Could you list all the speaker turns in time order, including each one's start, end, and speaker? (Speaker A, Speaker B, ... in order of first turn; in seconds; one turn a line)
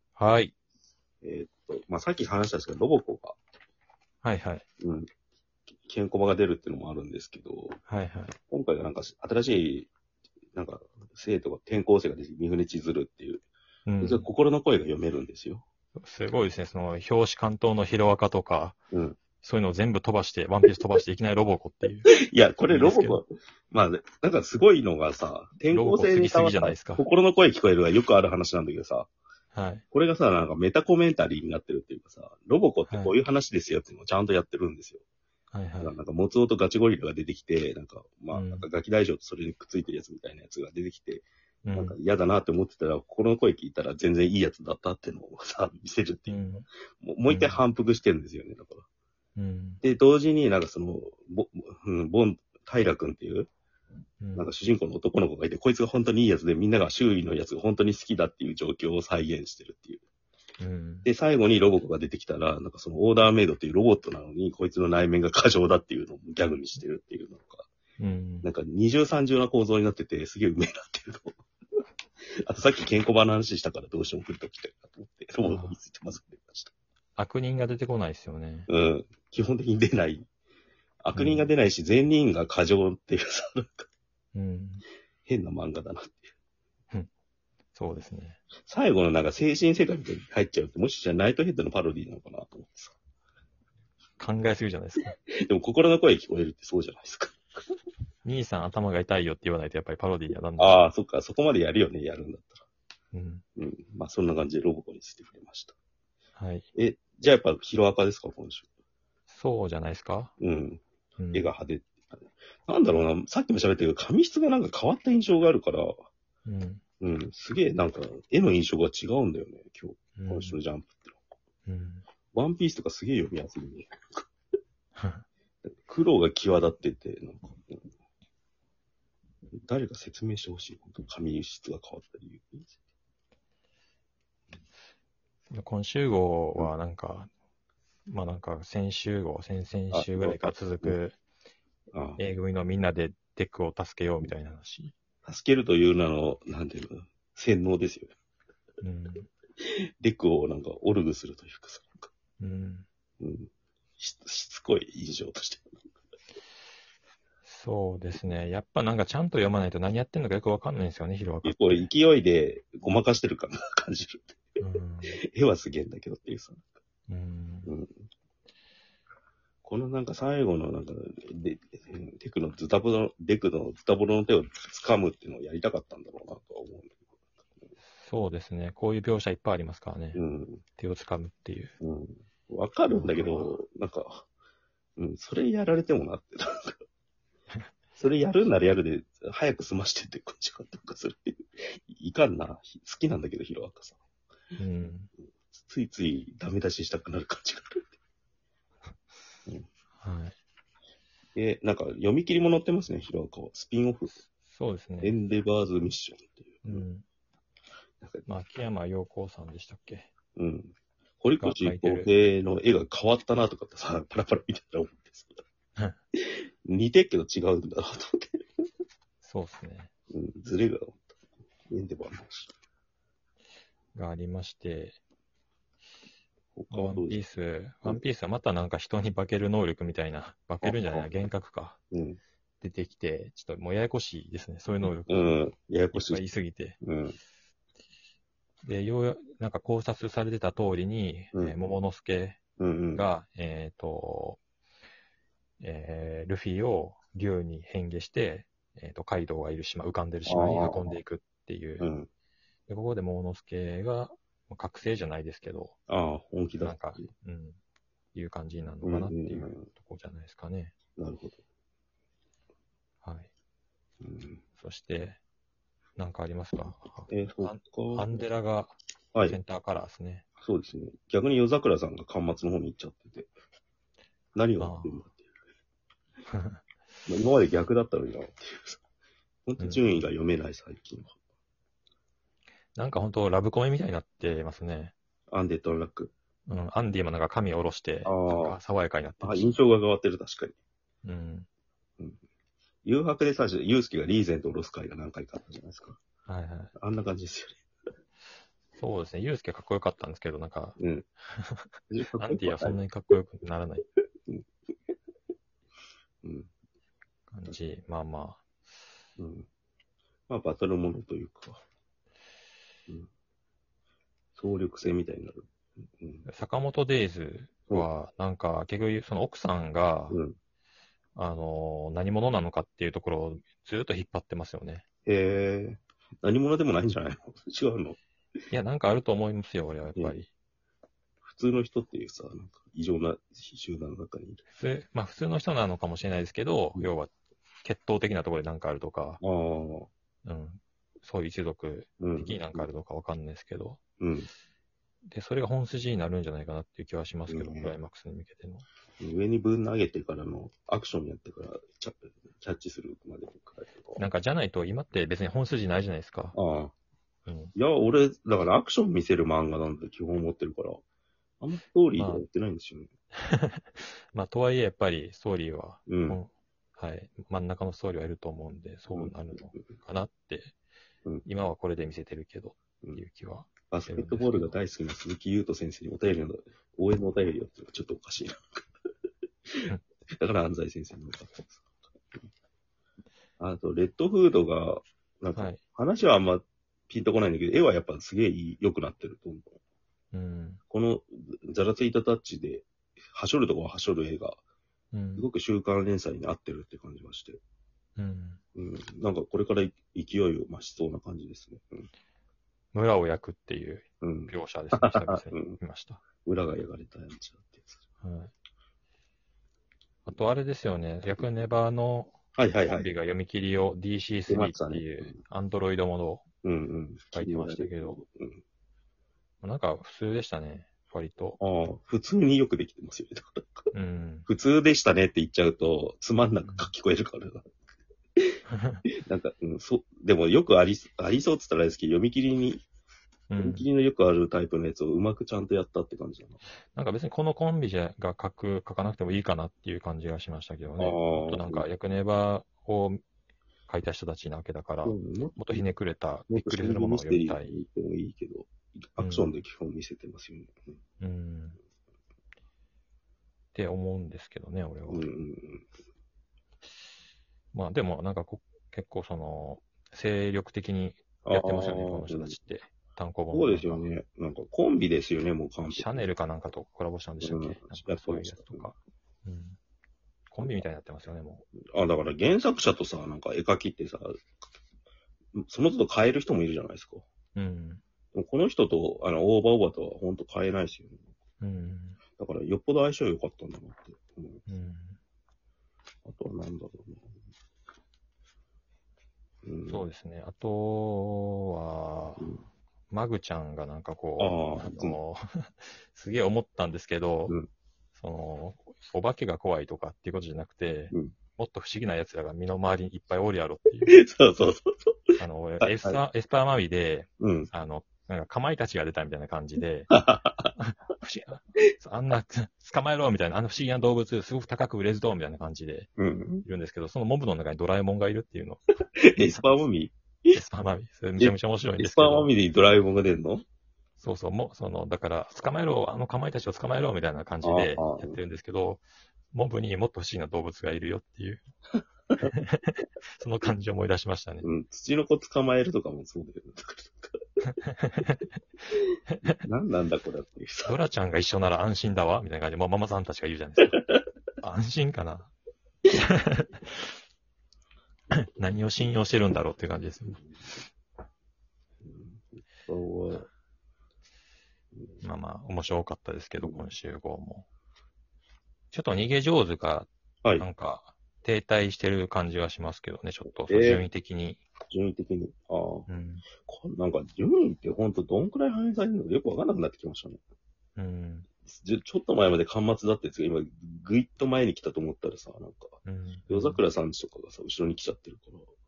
Speaker A: 0.2-0.5
Speaker B: 1.2-3.4
Speaker A: 4.2-4.7
Speaker B: 4.8-5.1
Speaker B: 5.8-7.8
Speaker A: 7.9-8.3
Speaker B: 8.5-9.9
Speaker B: 10.5-13.4
Speaker A: 13.9-14.3
Speaker B: 14.0-15.7
Speaker A: 16.0-18.8
Speaker B: 18.9-19.2
Speaker A: 19.4-22.1
Speaker B: 22.1-29.1
Speaker A: 22.7-23.2
Speaker A: 25.7-27.0
Speaker A: 29.5-29.8
Speaker B: 29.9-35.0
Speaker A: 32.9-33.1
Speaker A: 35.5-36.0
Speaker B: 35.8-46.4
Speaker A: 38.3-38.7
Speaker A: 41.6-42.0
Speaker A: 46.3-46.7
Speaker B: 47.0-48.9
Speaker A: 47.3-47.6
Speaker A: 49.4-49.8
Speaker B: 49.8-53.5
Speaker A: 54.2-54.5
Speaker B: 54.4-60.0
Speaker A: 60.6-61.1
Speaker B: 61.0-67.7
Speaker A: 68.0-68.5
Speaker B: 68.4-71.4
Speaker B: 72.4-76.7
Speaker A: 75.4-75.8
Speaker A: 77.2-78.7
Speaker B: 78.7-80.3
Speaker B: 81.0-83.9
Speaker A: 81.2-81.5
Speaker A: 84.3-84.8
Speaker B: 85.3-86.3
Speaker A: 87.8-88.4
Speaker B: 88.7-93.0
Speaker A: 94.2-95.1
Speaker B: 95.1-97.5
Speaker A: 98.2-100.8
Speaker B: 100.6-102.7
Speaker A: 103.1-103.4
Speaker B: 103.6-105.8
Speaker A: 106.4-106.7
Speaker B: 106.8-108.7
Speaker A: 109.3-110.3
Speaker B: 110.4-110.8
Speaker A: 111.2-111.5
Speaker B: 111.3-116.0
Speaker A: 116.5-116.8
Speaker B: 117.0-121.4
Speaker A: 120.2-120.6
Speaker A: 121.7-122.0
Speaker B: 122.3-124.3
Speaker A: 125.0-125.2
Speaker B: 125.7-127.8
Speaker B: 129.6-132.8
Speaker A: 135.5-137.3
Speaker A: 138.1-141.2
Speaker B: 139.9-141.0
Speaker B: 141.9-142.2
Speaker A: 142.2-144.9
Speaker B: 145.2-148.1
Speaker A: 148.8-149.3
Speaker B: 149.6-152.1
Speaker A: 152.4-152.9
Speaker B: 153.2-155.7
Speaker A: 157.4-161.9
Speaker B: 161.4-164.4
Speaker A: 164.6-165.2
Speaker B: 165.3-166.7
Speaker A: 167.1-167.7
Speaker B: 167.7-168.0
Speaker B: 169.6-177.1
Speaker A: 178.0-180.2
Speaker B: 180.1-180.6
Speaker A: 180.8-181.7
Speaker B: 181.8-184.3
Speaker A: 182.9-183.6
Speaker B: 185.0-186.8
Speaker B: 188.0-194.0
Speaker A: 194.6-195.1
Speaker B: 195.5-197.9
Speaker A: 200.0-200.4
Speaker B: 201.4-204.2
Speaker A: 204.5-205.2
Speaker B: 205.0-206.8
Speaker A: 206.7-207.1
Speaker B: 208.0-208.3
Speaker A: 208.3-210.1
Speaker B: 210.4-215.4
Speaker A: 211.4-212.1
Speaker B: 216.7-218.4
Speaker A: 219.2-219.9
Speaker B: 220.1-221.1
Speaker B: 221.7-222.5
Speaker A: 223.9-225.0
Speaker B: 226.6-227.2
Speaker A: 226.7-231.8
Speaker B: 230.6-231.1
Speaker B: 231.9-232.2
Speaker A: 232.6-235.3
Speaker B: 235.1-236.2
Speaker A: 235.9-236.8
Speaker B: 236.8-237.2
Speaker A: 238.6-242.4
Speaker B: 242.6-243.1
Speaker A: 242.9-244.4
Speaker A: 245.6-251.9
Speaker B: 250.3-251.0
Speaker B: 251.8-252.1
Speaker A: 252.7-255.8
Speaker B: 255.9-256.9
Speaker A: 256.6-257.6
Speaker A: 258.1-260.7
Speaker B: 258.8-259.7
Speaker B: 261.0-261.4
Speaker A: 263.0-263.3
Speaker B: 264.0-264.4
Speaker A: 264.6-265.2
Speaker A: 266.0-270.2
Speaker B: 267.1-268.1
Speaker B: 270.4-273.3
Speaker B: 274.4-275.4
Speaker A: 274.6-275.0
Speaker A: 276.3-276.6
Speaker B: 277.1-278.8
Speaker B: 279.5-281.1
Speaker A: 282.8-284.9
Speaker B: 285.3-286.1
Speaker A: 286.5-289.5
Speaker B: 288.1-288.6
Speaker B: 289.2-290.6
Speaker A: 291.0-291.5
Speaker B: 292.9-296.0
Speaker A: 296.3-296.7
Speaker B: 296.8-297.6
Speaker A: 298.8-300.8
Speaker B: 300.8-301.1
Speaker A: 301.3-303.9
Speaker B: 301.9-302.8
Speaker B: 306.2-306.5
Speaker A: 307.3-308.4
Speaker B: 309.2-309.5
Speaker B: 310.3-311.6
Speaker B: 314.4-315.5
Speaker B: 316.0-316.3
Speaker A: 316.3-320.2
Speaker B: 320.1-320.4
Speaker A: 321.1-324.8
Speaker B: 325.1-328.0
Speaker A: 328.5-330.3
Speaker B: 331.2-334.4
Speaker A: 334.5-337.1
Speaker A: 337.6-339.2
Speaker B: 339.2-339.9
Speaker A: 340.2-343.8
Speaker B: 342.0-342.7
Speaker B: 344.0-344.3
Speaker A: 345.1-348.7
Speaker B: 347.3-347.7
Speaker B: 349.0-354.1
Speaker A: 354.0-356.4
Speaker B: 356.3-356.7
Speaker A: 357.3-357.5
Speaker B: 357.6-360.8
Speaker B: 361.4-362.9
Speaker A: 361.9-362.2
Speaker A: 363.2-370.5
Speaker B: 365.9-366.2
Speaker A: 371.3-374.6
Speaker B: 373.7-378.6
Speaker B: 380.1-382.2
Speaker B: 383.4-389.6
Speaker A: 385.4-385.6
Speaker A: 390.1-390.6
Speaker B: 390.7-394.4
Speaker A: 394.9-395.3
Speaker B: 395.2-397.4
Speaker A: 398.0-398.4
Speaker B: 398.6-401.9
Speaker A: 402.7-406.0
Speaker B: 404.0-405.6
Speaker B: 406.2-407.8
Speaker A: 408.0-408.3
Speaker A: 410.1-412.1
Speaker B: 412.4-412.9
Speaker A: 412.7-416.2
Speaker B: 414.3-415.1
Speaker B: 416.4-418.4
Speaker A: 417.1-418.0
Speaker A: 419.4-421.4
Speaker B: 421.4-423.7
Speaker A: 423.7-424.3
Speaker B: 424.3-427.5
Speaker A: 428.5-428.8
Speaker B: 429.0-432.6
Speaker A: 433.3-433.7
Speaker B: 433.4-436.4
Speaker A: 436.7-443.0
Speaker B: 440.8-441.6
Speaker A: 443.7-447.6
Speaker B: 444.8-445.7
Speaker B: 446.3-450.5
Speaker A: 449.0-449.3
Speaker A: 451.0-451.6
Speaker A: 453.5-455.1
Speaker B: 454.9-455.7
Speaker A: 457.5-463.9
Speaker B: 461.2-462.4
Speaker B: 463.3-466.0
Speaker A: 465.7-469.6
Speaker B: 467.2-468.7
Speaker A: 470.3-471.4
Speaker B: 471.7-474.2
Speaker B: 475.4-477.0
Speaker A: 477.4-477.8
Speaker B: 478.1-481.1
Speaker A: 481.4-482.0
Speaker B: 482.2-484.5
Speaker A: 484.5-485.0
Speaker B: 486.1-487.1
Speaker B: 489.4-489.9
Speaker A: 489.7-492.3
Speaker B: 492.2-492.4
Speaker A: 492.9-497.3
Speaker B: 494.2-495.0
Speaker A: 498.0-504.0
Speaker B: 503.9-504.9
Speaker A: 505.2-510.0
Speaker B: 505.6-506.0
Speaker B: 507.2-507.5
Speaker B: 509.9-510.5
Speaker A: 510.6-515.9
Speaker B: 516.0-516.5
Speaker A: 516.5-518.6
Speaker B: 519.1-520.4
Speaker A: 519.2-519.6
Speaker A: 520.3-522.3
Speaker B: 521.2-523.4
Speaker A: 524.0-531.4
Speaker B: 527.4-528.2
Speaker A: 532.2-534.5
Speaker B: 534.4-537.2
Speaker A: 537.5-538.2
Speaker A: 539.1-539.4
Speaker B: 539.4-540.8
Speaker A: 540.7-543.8
Speaker B: 543.8-544.0
Speaker A: 544.4-545.3
Speaker A: 545.9-546.9
Speaker A: 548.1-550.2
Speaker B: 550.1-550.4
Speaker B: 551.8-553.3
Speaker A: 555.0-557.5
Speaker B: 556.4-556.7
Speaker A: 558.7-564.4
Speaker B: 563.5-563.9
Speaker B: 564.7-565.9
Speaker A: 565.9-566.2
Speaker B: 566.4-570.2
Speaker A: 570.8-571.3
Speaker B: 571.5-575.8
Speaker A: 575.9-576.6
Speaker B: 576.3-578.5